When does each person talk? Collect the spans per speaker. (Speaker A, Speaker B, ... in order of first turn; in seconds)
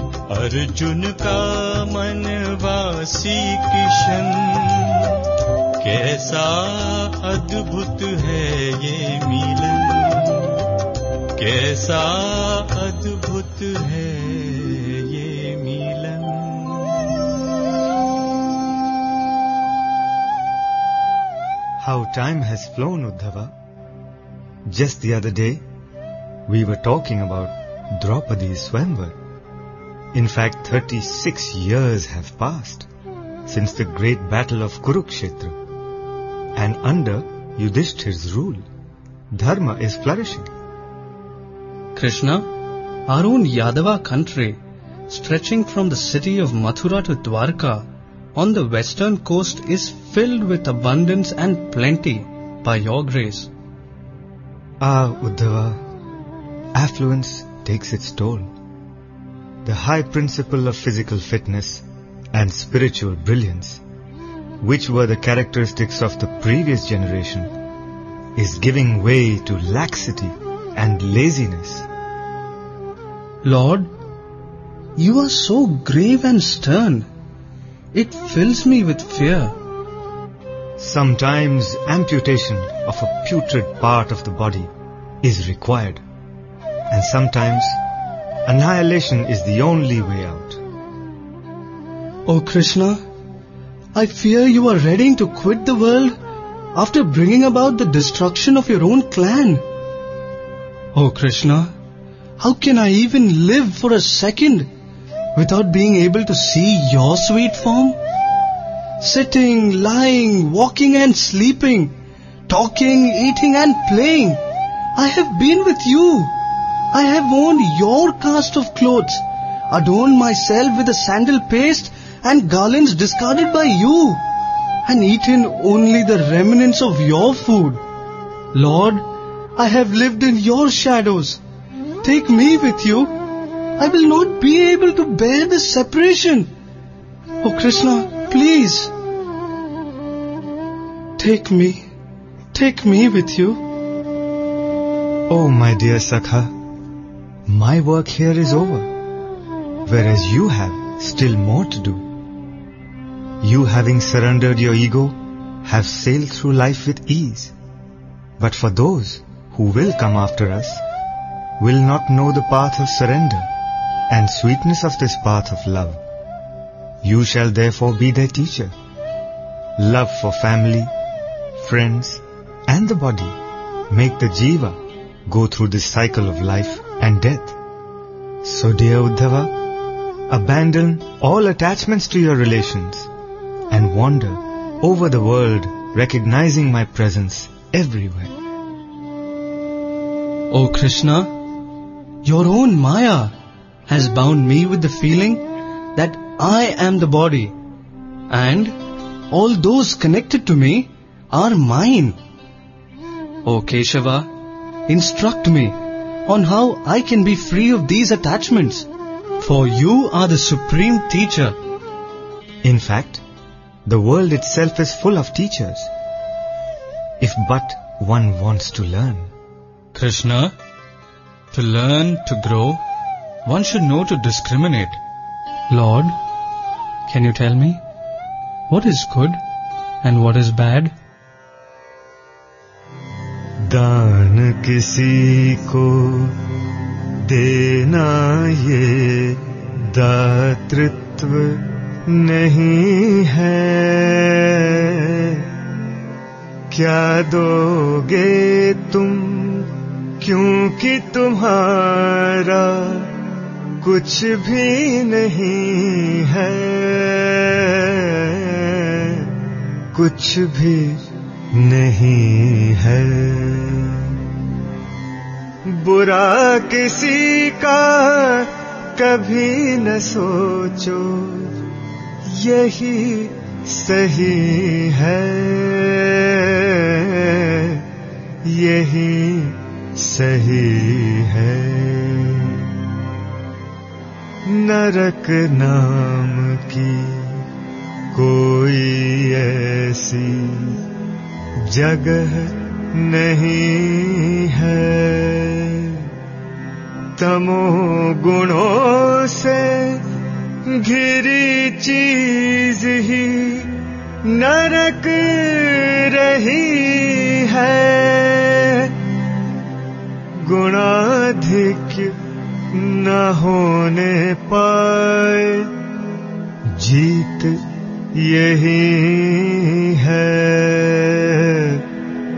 Speaker A: 0.3-5.1, 5.8-10.5, 11.4-17.1
Speaker B: 21.8-23.5, 24.7-25.6, 26.5-29.2, 30.1-32.9, 33.5-35.6, 36.6-38.6, 39.3-40.5, 54.8-55.8, 56.8-58.5, 59.6-63.8, 64.6-67.5, 68.4-71.9, 80.8-84.7, 85.2-86.0, 86.9-87.8, 88.5-90.6, 145.3-146.5, 147.5-148.9, 149.9-152.1, 153.4-157.5, 158.4-160.8, 161.6-163.5, 164.1-166.0, 167.0-168.7, 169.8-170.9, 171.6-173.4, 173.9-177.6, 178.4-179.5, 180.3-183.1, 183.7-188.3, 212.6-213.2, 213.9-215.9, 217.2-219.3, 233.6-236.4, 237.2-245.5, 246.7-253.1, 253.8-259.4, 259.9-264.2, 265.7-271.5, 272.2-277.9, 278.4-282.7, 284.4-287.5, 288.1-290.8, 291.6-296.1, 297.2-300.0, 300.7-308.9, 310.4-312.1, 312.7-315.7, 316.7-317.6, 318.1-321.9
Speaker C: 42.0-42.5, 43.1-44.6, 45.1-53.5, 73.4-73.9, 75.0-77.1, 77.9-79.6, 92.3-93.0, 94.0-96.2, 96.8-99.7, 101.0-101.7, 102.4-104.7, 105.4-108.0, 109.0-112.0, 112.5-114.4, 115.0-116.3, 116.9-124.2, 124.9-127.8, 128.5-129.1, 129.6-131.4, 132.0-133.1, 133.8-136.5, 137.4-138.9, 141.2-141.9, 142.5-143.6, 190.5-191.3, 192.2-193.3, 193.9-197.6, 198.3-198.8, 199.3-202.2, 203.5-204.3, 204.9-208.9, 209.4-211.6, 219.9-220.5, 221.5-222.8, 223.5-225.0, 225.7-226.2, 227.1-227.8, 228.7-229.4, 230.0-230.9